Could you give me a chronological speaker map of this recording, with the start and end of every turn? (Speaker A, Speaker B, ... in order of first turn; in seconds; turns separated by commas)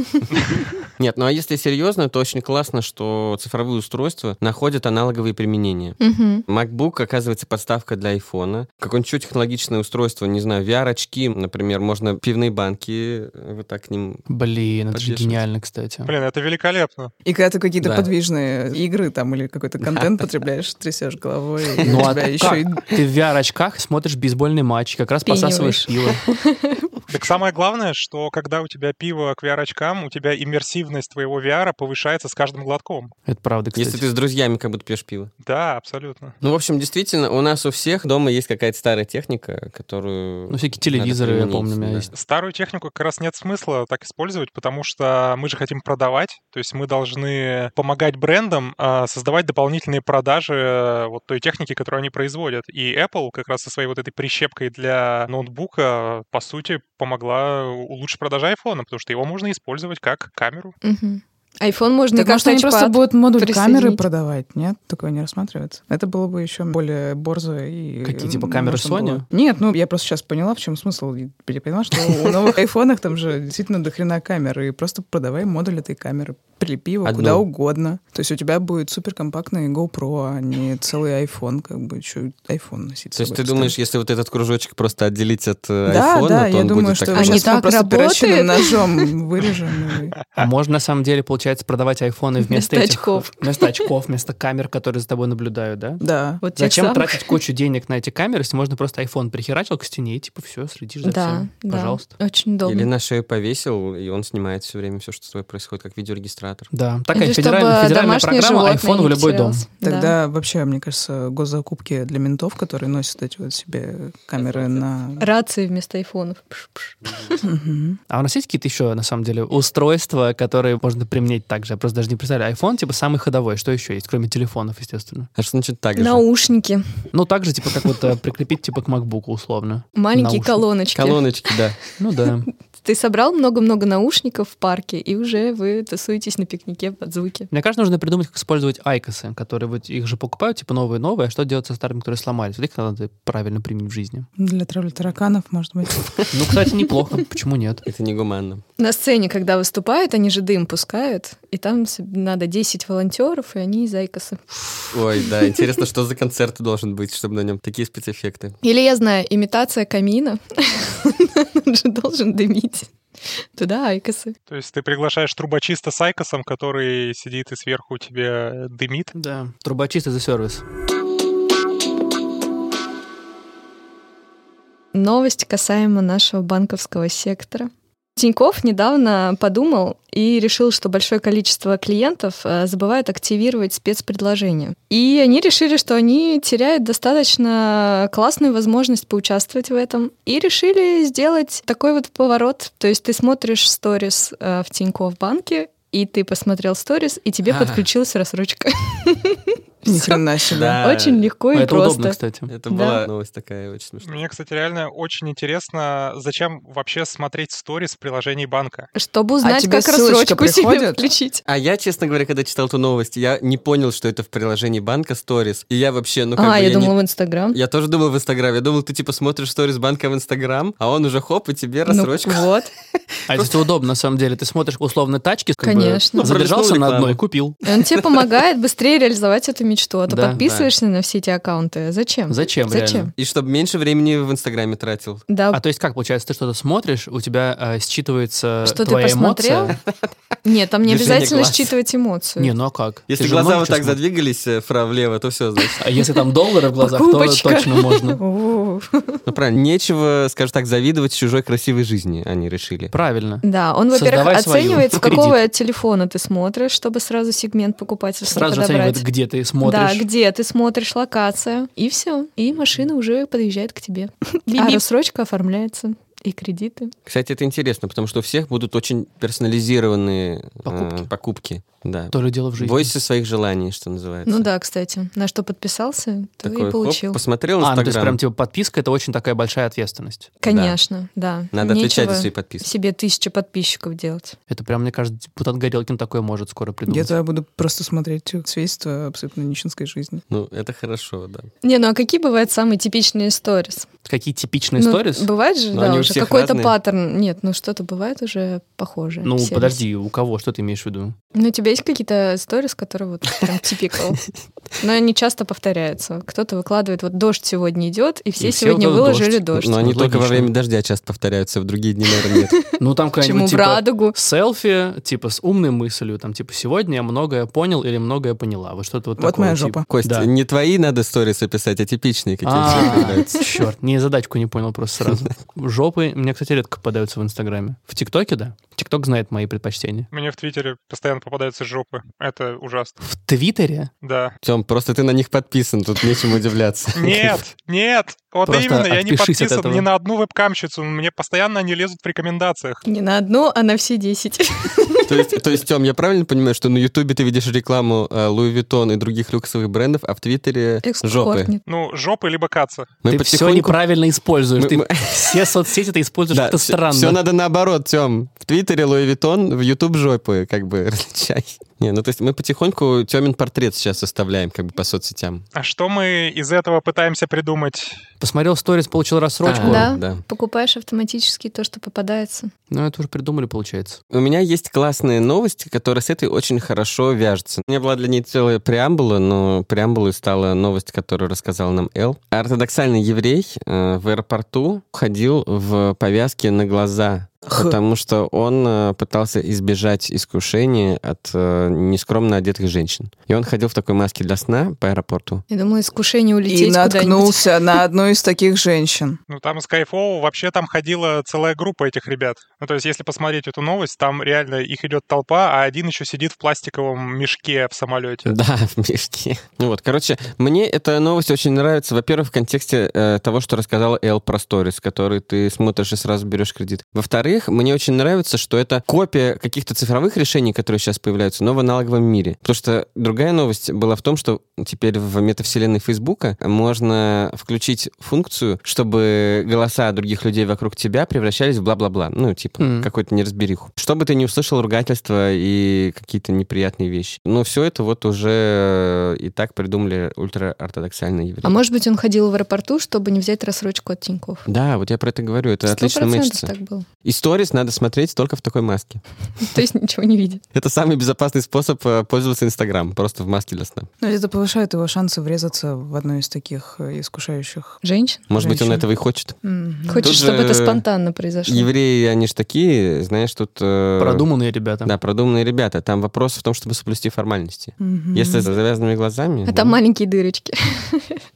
Speaker A: 1.0-14.3, Speaker B: 6.0-6.4, Speaker C: 14.3-16.1, Speaker A: 14.9-15.4, Speaker D: 16.1-17.1, Speaker E: 17.2-22.9, Speaker A: 17.8-18.1, Speaker A: 19.8-20.2, Speaker C: 21.8-26.2, Speaker B: 25.2-26.9, Speaker D: 27.1-33.1, Speaker C: 33.3-34.0, Speaker A: 33.8-35.3, Speaker D: 35.4-36.4, Speaker A: 36.4-42.1, Speaker C: 40.5-42.1, Speaker D: 42.1-60.7, Speaker B: 60.8-64.0, Speaker E: 62.1-83.8, Speaker C: 68.0-69.2, Speaker A: 77.0-77.5, Speaker A: 83.2-87.5, Speaker E: 85.9-90.2, Speaker B: 87.1-89.1, Speaker C: 90.4-96.0, Speaker B: 92.4-93.8, Speaker E: 96.0-96.4, Speaker B: 96.4-97.4, Speaker C: 96.6-102.2, Speaker B: 101.0-102.9, Speaker A: 102.6-106.7, Speaker C: 106.7-109.7, Speaker B: 107.1-110.2, Speaker E: 109.8-115.3, Speaker A: 114.4-114.7, Speaker B: 115.2-117.4, Speaker E: 117.4-118.0, Speaker C: 118.1-125.3, Speaker A: 125.4-126.2, Speaker B: 126.0-127.0, Speaker C: 127.1-130.6, Speaker B: 129.9-131.3, Speaker A: 130.9-131.8, Speaker C: 132.0-132.5, Speaker B: 132.8-137.5, Speaker C: 137.5-144.3, Speaker E: 144.4-146.5, Speaker C: 146.3-147.8, Speaker A: 147.9-148.6, Speaker B: 148.8-155.3, Speaker A: 154.9-158.6, Speaker B: 158.6-162.9, Speaker B: 163.6-164.4, Speaker D: 164.5-169.1, Speaker C: 169.1-170.6, Speaker B: 174.9-200.2, Speaker A: 197.5-197.8, Speaker E: 199.9-200.8, Speaker A: 200.5-201.3, Speaker B: 200.8-202.2, Speaker C: 201.5-202.5, Speaker A: 202.5-204.2, Speaker B: 202.7-203.0, Speaker D: 204.0-208.9, Speaker B: 208.9-211.4, Speaker E: 209.4-211.1, Speaker A: 211.5-217.0, Speaker B: 216.4-217.6, Speaker A: 217.5-222.5, Speaker B: 221.9-222.7, Speaker A: 223.3-223.6, Speaker C: 223.3-227.6, Speaker B: 225.6-226.3, Speaker A: 226.2-227.2, Speaker B: 227.6-233.1, Speaker C: 230.1-230.4, Speaker A: 230.4-230.7, Speaker C: 232.3-233.1, Speaker A: 233.2-235.2, Speaker B: 235.3-235.6, Speaker C: 235.5-239.8, Speaker B: 238.6-239.8, Speaker B: 240.4-242.6, Speaker A: 240.8-241.7, Speaker C: 242.4-244.0, Speaker A: 243.1-245.8, Speaker C: 245.8-248.2, Speaker B: 246.7-249.2, Speaker A: 249.3-252.9, Speaker C: 252.9-255.4, Speaker B: 253.4-259.1, Speaker C: 258.2-260.1, Speaker B: 259.6-266.9, Speaker E: 264.5-264.9, Speaker A: 267.1-274.5, Speaker C: 270.6-271.1, Speaker C: 272.1-273.0, Speaker B: 274.3-277.2, Speaker A: 276.4-278.2, Speaker C: 277.6-280.3, Speaker B: 280.4-284.4, Speaker A: 280.5-280.8, Speaker A: 281.5-282.7, Speaker C: 284.5-287.1, Speaker E: 286.9-290.2, Speaker A: 290.3-291.5, Speaker B: 291.6-293.9, Speaker C: 294.1-295.3, Speaker B: 294.8-299.8, Speaker A: 295.7-296.8, Speaker C: 299.2-301.1, Speaker B: 301.3-304.2, Speaker B: 304.8-309.8, Speaker C: 308.4-310.5, Speaker A: 309.5-312.6, Speaker B: 312.2-314.2, Speaker C: 312.8-320.3, Speaker E: 319.2-319.9, Speaker A: 319.9-323.4, Speaker C: 322.4-330.1, Speaker D: 330.1-333.0, Speaker C: 333.0-333.9, Speaker D: 334.0-334.3, Speaker A: 334.4-337.5, Speaker D: 336.9-342.8, Speaker C: 338.5-339.9, Speaker B: 342.9-345.3, Speaker A: 345.1-351.5, Speaker B: 350.8-351.6, Speaker D: 351.7-352.9, Speaker A: 353.0-353.8, Speaker C: 353.1-357.2, Speaker A: 354.6-355.6, Speaker A: 356.3-365.4, Speaker D: 365.6-368.0, Speaker C: 368.2-369.9, Speaker A: 369.4-370.2, Speaker B: 369.6-372.5, Speaker C: 372.7-374.0, Speaker A: 374.1-395.4, Speaker E: 387.5-387.8, Speaker B: 395.5-397.4, Speaker E: 396.5-399.2, Speaker D: 399.3-408.3, Speaker A: 408.3-441.6, Speaker C: 432.6-432.9, Speaker B: 441.4-444.5, Speaker A: 444.5-449.0, Speaker B: 445.7-446.9, Speaker B: 449.4-450.4, Speaker A: 450.5-453.9, Speaker E: 454.0-457.8, Speaker B: 457.8-458.3, Speaker A: 458.3-459.4, Speaker E: 458.3-458.9, Speaker E: 459.4-460.2, Speaker B: 459.9-461.7, Speaker A: 460.0-460.8, Speaker A: 461.5-464.3, Speaker C: 464.0-464.9, Speaker A: 464.8-469.8, Speaker E: 467.8-468.5, Speaker B: 469.5-471.2